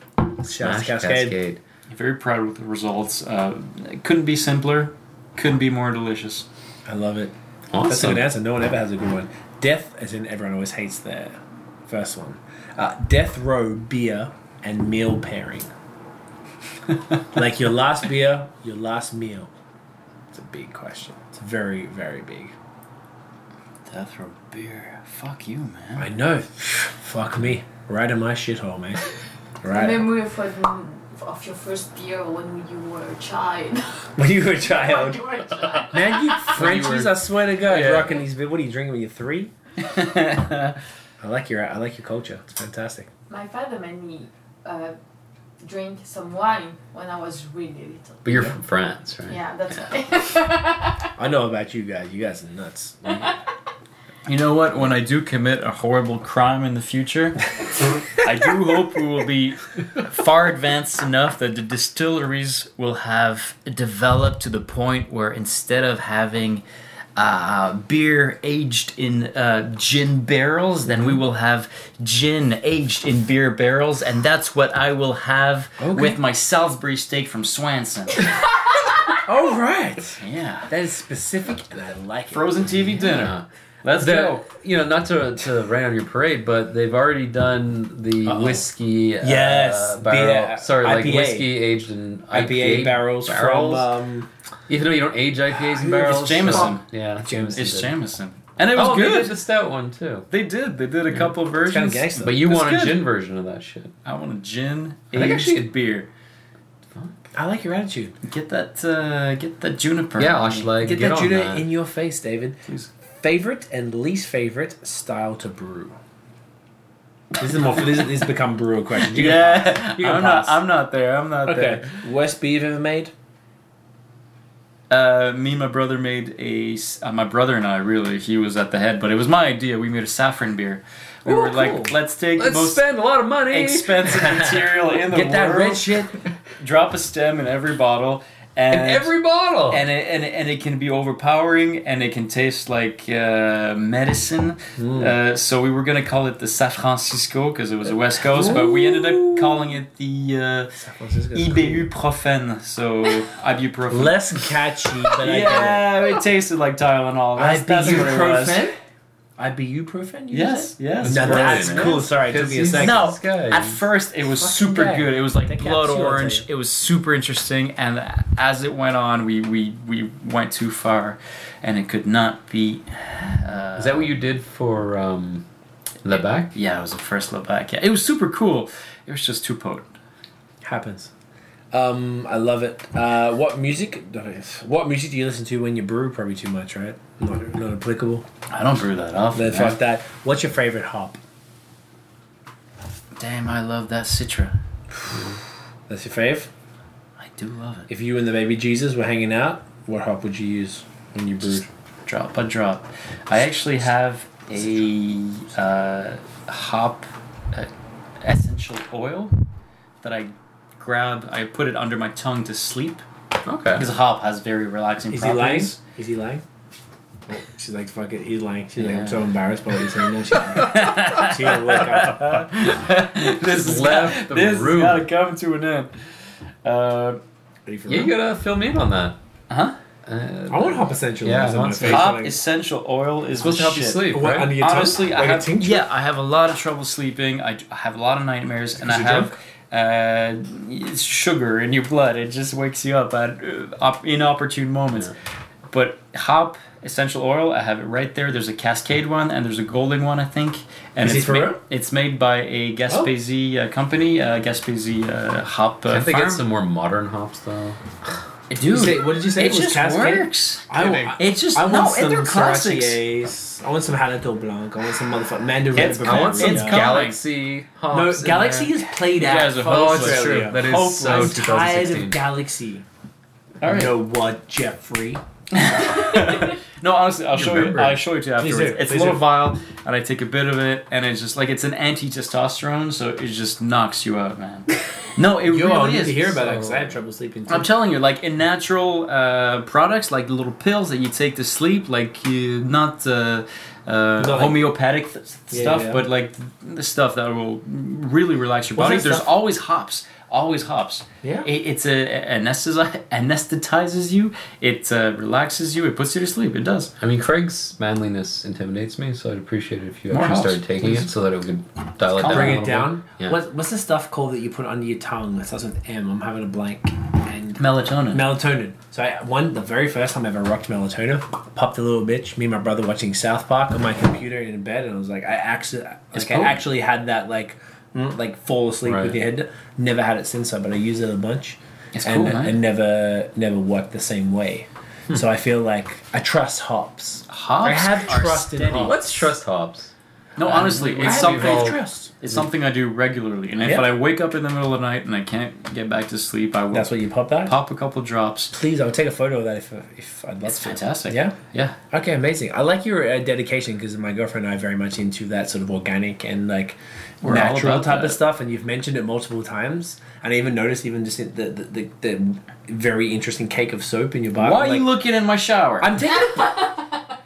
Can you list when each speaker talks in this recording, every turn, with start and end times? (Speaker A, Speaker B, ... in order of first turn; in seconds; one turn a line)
Speaker A: 0.4-1.4
Speaker B: 0.5-1.6
Speaker C: 1.9-6.5
Speaker A: 6.8-7.3
Speaker B: 7.7-8.3
Speaker A: 7.8-15.7
Speaker A: 17.3-19.5
Speaker A: 20.3-22.5
Speaker C: 23.9-26.1
Speaker A: 26.0-29.0
Speaker A: 29.6-30.1
Speaker D: 29.7-34.1
Speaker A: 34.2-35.2
Speaker D: 34.6-36.5
Speaker A: 35.9-39.5
Speaker B: 36.5-37.1
Speaker C: 37.6-38.2
Speaker C: 39.8-40.8
Speaker A: 41.2-43.1
Speaker D: 43.3-45.0
Speaker D: 45.6-48.2
Speaker B: 48.2-49.4
Speaker A: 48.3-48.5
Speaker D: 49.3-51.1
Speaker A: 51.2-53.3
Speaker C: 54.2-57.5
Speaker C: 58.1-66.6
Speaker C: 67.2-78.3
Speaker A: 70.9-71.2
Speaker A: 75.8-76.2
Speaker A: 79.2-82.6
Speaker C: 80.2-80.7
Speaker C: 82.3-84.4
Speaker B: 83.1-83.4
Speaker B: 84.0-93.9
Speaker A: 88.2-88.7
Speaker A: 89.2-91.6
Speaker A: 92.3-94.3
Speaker B: 94.7-97.9
Speaker C: 95.8-96.8
Speaker A: 96.3-97.7
Speaker C: 97.5-99.4
Speaker B: 98.7-100.3
Speaker C: 100.3-103.0
Speaker A: 101.6-102.4
Speaker B: 102.2-103.9
Speaker C: 104.0-106.1
Speaker B: 105.1-105.7
Speaker A: 107.3-108.1
Speaker C: 108.2-110.7
Speaker B: 110.2-111.7
Speaker A: 110.8-112.6
Speaker A: 113.2-116.0
Speaker A: 117.4-120.6
Speaker C: 119.0-122.0
Speaker A: 121.5-123.1
Speaker C: 124.9-132.8
Speaker A: 131.2-131.9
Speaker B: 132.3-134.1
Speaker C: 133.5-136.0
Speaker A: 135.1-136.2
Speaker C: 136.6-139.1
Speaker B: 138.7-139.8
Speaker C: 139.7-150.8
Speaker A: 144.8-145.1
Speaker A: 148.2-149.7
Speaker A: 150.8-151.9
Speaker C: 151.3-154.2
Speaker A: 153.9-155.9
Speaker C: 155.2-158.7
Speaker A: 157.4-158.8
Speaker B: 157.8-158.1
Speaker A: 159.4-163.1
Speaker C: 160.3-162.1
Speaker B: 161.0-163.8
Speaker C: 162.7-174.1
Speaker A: 164.4-166.5
Speaker B: 173.8-175.4
Speaker B: 176.0-176.5
Speaker C: 176.5-179.9
Speaker A: 180.6-181.1
Speaker A: 181.7-188.2
Speaker C: 188.5-189.8
Speaker A: 189.3-191.2
Speaker C: 193.2-194.6
Speaker A: 195.9-196.5
Speaker C: 197.2-197.9
Speaker A: 197.9-200.8
Speaker B: 201.1-201.6
Speaker C: 201.5-207.7
Speaker C: 208.2-209.3
Speaker C: 210.0-213.0
Speaker B: 213.4-213.9
Speaker C: 213.7-215.8
Speaker A: 215.1-216.4
Speaker A: 217.3-222.4
Speaker C: 218.8-219.2
Speaker C: 220.5-225.9
Speaker B: 223.4-225.1
Speaker C: 226.6-227.2
Speaker A: 227.7-228.2
Speaker B: 227.9-229.2
Speaker C: 229.5-229.8
Speaker B: 230.0-232.1
Speaker A: 230.5-232.3
Speaker C: 231.8-245.1
Speaker B: 233.4-234.6
Speaker A: 234.1-235.8
Speaker A: 238.8-239.3
Speaker C: 245.7-256.4
Speaker A: 251.0-251.6
Speaker B: 255.9-257.8
Speaker C: 258.5-263.0
Speaker A: 258.7-267.0
Speaker B: 260.8-261.1
Speaker B: 265.7-268.7
Speaker C: 265.7-267.2
Speaker A: 267.9-272.8
Speaker C: 269.1-271.5
Speaker B: 269.6-272.2
Speaker C: 273.6-273.9
Speaker A: 273.6-275.2
Speaker C: 275.5-286.4
Speaker D: 275.8-276.5
Speaker A: 277.3-279.2
Speaker A: 285.4-287.7
Speaker B: 286.4-286.9
Speaker C: 287.5-306.9
Speaker A: 294.2-294.6
Speaker A: 295.5-296.0
Speaker A: 298.8-299.2
Speaker A: 301.2-301.5
Speaker B: 307.0-313.4
Speaker C: 310.1-310.7
Speaker C: 312.1-312.6
Speaker A: 312.2-339.3
Speaker C: 317.6-318.3
Speaker C: 326.1-326.6
Speaker B: 328.8-329.2
Speaker C: 331.9-332.5
Speaker C: 337.3-339.0
Speaker B: 338.8-339.9
Speaker C: 340.4-348.6
Speaker B: 340.4-341.8
Speaker A: 340.5-342.4
Speaker A: 343.6-343.9
Speaker A: 346.7-347.6
Speaker A: 348.5-351.4
Speaker C: 350.4-351.8
Speaker A: 351.9-364.8
Speaker C: 357.2-358.2
Speaker C: 364.4-365.9
Speaker A: 365.8-366.5
Speaker D: 366.0-367.0